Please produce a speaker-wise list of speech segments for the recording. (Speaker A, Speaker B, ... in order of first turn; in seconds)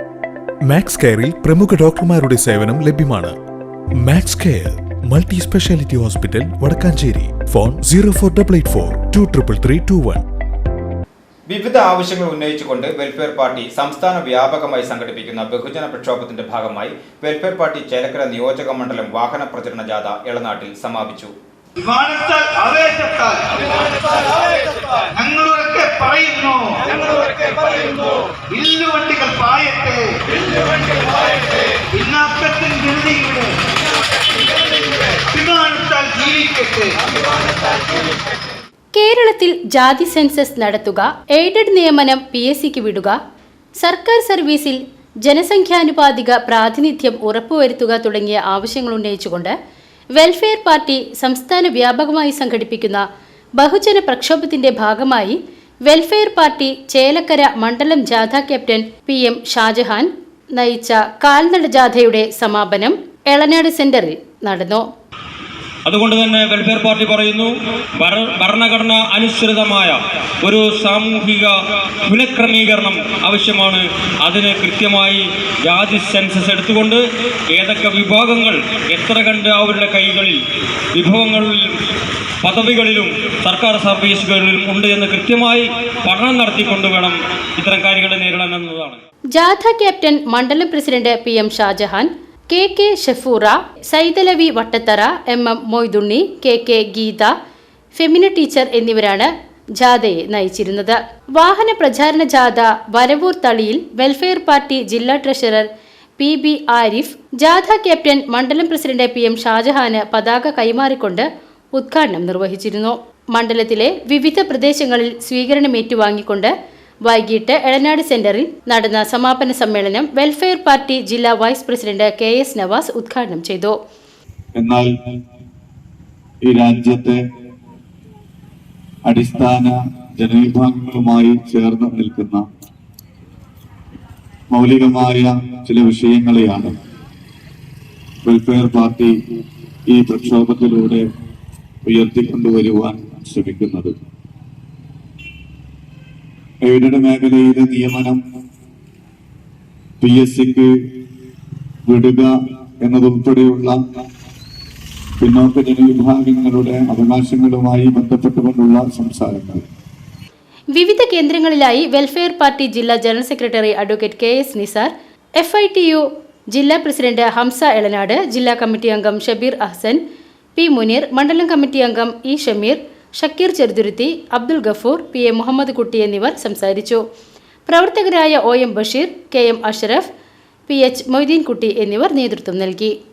Speaker A: 0.6-3.4, 4.0-10.2
Speaker B: 11.5-21.3
Speaker C: 21.8-24.5, 25.1-30.1, 30.8-33.6, 35.3-37.0
Speaker D: 39.0-43.2, 43.8-49.5, 50.2-53.0, 53.6-55.4, 55.9-64.8, 89.3-97.3, 98.0-105.7, 106.2-116.5, 117.0-123.8, 160.7-170.0, 170.6-177.0, 177.7-180.1, 180.7-182.9
Speaker E: 65.9-67.5, 68.0-71.5, 72.0-80.4, 81.0-81.7, 82.4-89.0
Speaker F: 124.6-124.9, 126.5-127.2, 129.1-132.4, 134.5-136.7, 138.2-139.1, 139.9-141.1, 141.8-143.9, 146.6-148.2, 150.0-150.7, 151.9-153.8, 155.2-159.6